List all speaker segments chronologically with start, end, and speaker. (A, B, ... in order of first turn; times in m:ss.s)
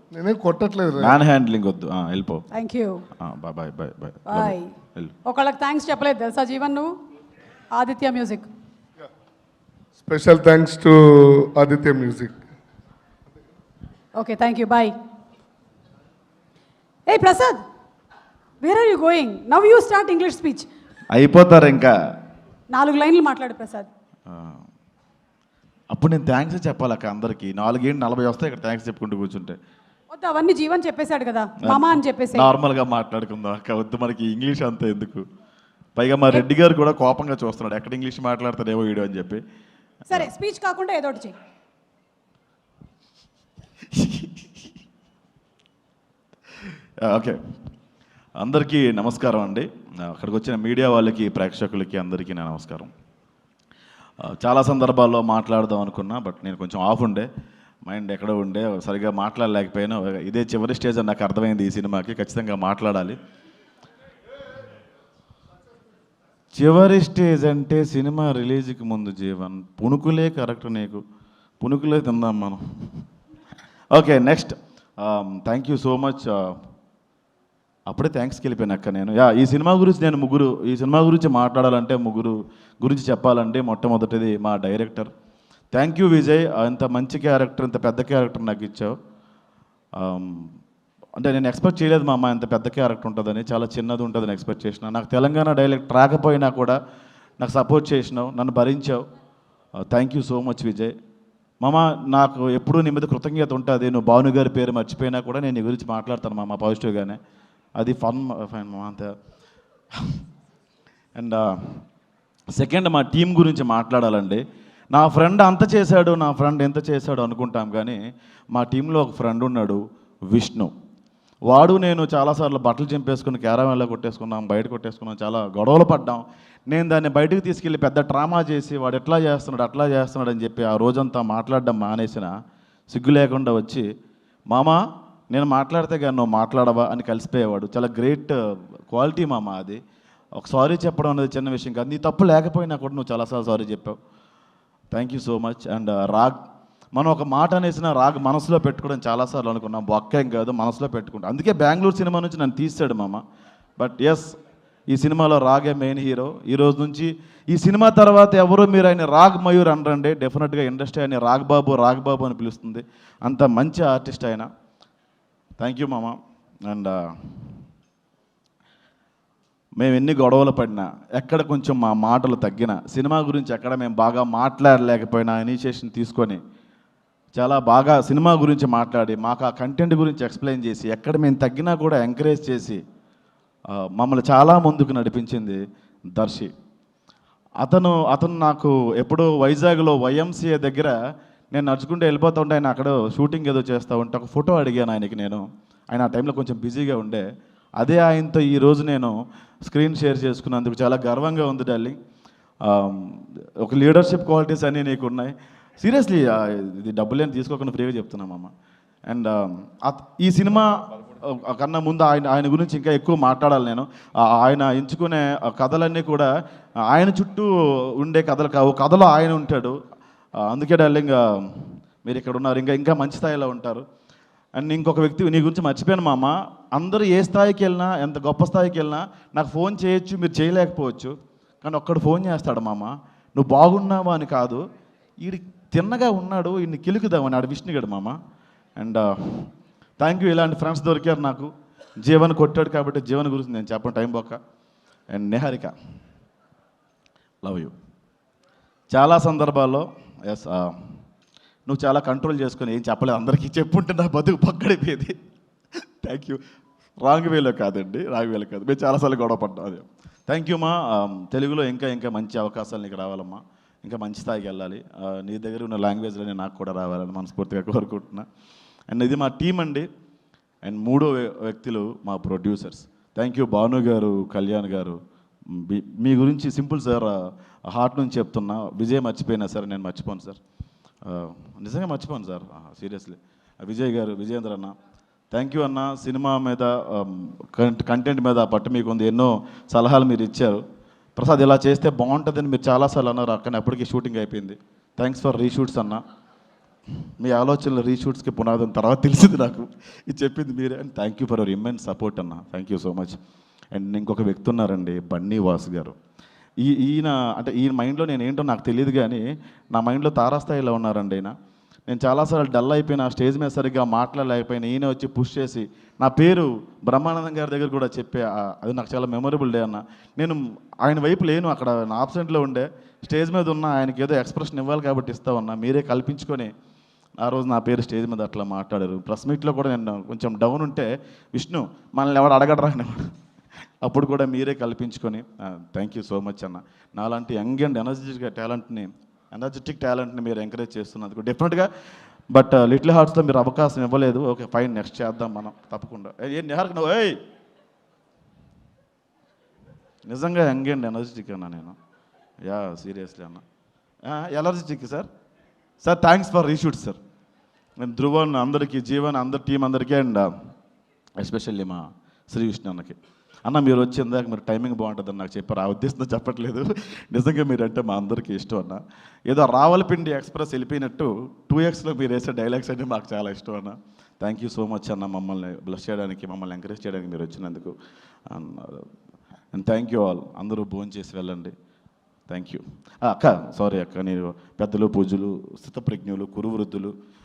0:00.1-0:01.2 A
0:01.0-0:02.4 B
0:02.5-0:03.0 C
0:03.2-0:05.1 B
0:04.3-0:04.7 C
0:05.2-0:06.9 C
0:07.7-0:08.5 C
0:10.0-0:12.3 A
0:14.2-0:15.0 C
0:17.1-0:17.6 C
0:18.6-0:20.7 C
0:21.1-0:21.9 B
0:22.7-0:23.9 C
0:24.3-0:24.6 B
0:25.9-0:29.6 B
0:30.1-0:32.5 C
0:31.6-0:35.2 B
0:36.0-0:39.4 B
0:40.1-0:41.4 C
0:43.9-0:44.5 B
0:47.0-0:47.4 B
0:48.4-0:52.9 B
0:54.2-0:57.3 B
0:57.8-1:03.2 B
1:06.5-1:11.0 B
1:11.6-1:12.6 B
1:13.9-1:16.6 B
1:17.9-1:25.1 B
1:25.7-1:28.9 B
1:30.0-1:30.5 B
1:31.2-1:36.8 B
1:37.4-1:39.0 B
1:39.9-1:40.9 B
1:41.6-1:47.2 B
1:47.8-1:49.1 B
1:51.2-1:51.8 B
1:52.5-1:58.0 B
1:58.5-2:00.7 B
2:01.5-2:12.3 B
2:12.9-2:13.8 B
2:14.5-2:14.8 B
2:15.3-2:18.3 B
2:18.9-2:19.8 B
2:20.4-2:24.0 B
2:24.9-2:26.4 B
2:26.9-2:33.2 B
2:33.8-2:34.4 B
2:34.9-2:44.5 B
2:45.6-2:47.4 B
2:49.8-2:56.4 B
2:57.3-3:02.8 B
3:03.7-3:05.6 B
3:06.2-3:06.5 B
3:07.6-3:10.9 B
3:11.5-3:17.2 B
3:17.8-3:22.0 B
3:22.6-3:28.5 B
3:29.1-3:36.3 B
3:36.9-3:39.8 B
3:40.4-3:43.8 B
3:44.5-3:54.6 B
3:55.2-3:58.2 B
3:58.8-4:04.4 B
4:05.1-4:05.7 B
4:07.4-4:07.7 B
4:08.9-4:10.9 B
4:11.7-4:15.1 B
4:16.0-4:16.4 B
4:17.0-4:28.2 B
4:28.9-4:29.9 B
4:30.6-4:40.4 B
4:41.0-4:44.7 B
4:45.3-4:50.6 B
4:51.2-4:56.0 B
4:57.2-5:03.2 B
5:03.7-5:06.0 B
5:06.6-5:11.3 B
5:11.9-5:26.5 B
5:27.2-5:33.1 B
5:33.8-5:41.7 B
5:42.3-5:47.2 B
5:50.0-5:51.8 B
5:52.4-5:53.4 B
5:54.0-5:55.1 B
5:55.8-5:57.0 B
5:57.8-6:00.3 B
6:01.2-6:17.7 B
6:18.3-6:18.9 B
6:19.5-6:21.5 B
6:22.3-6:26.9 B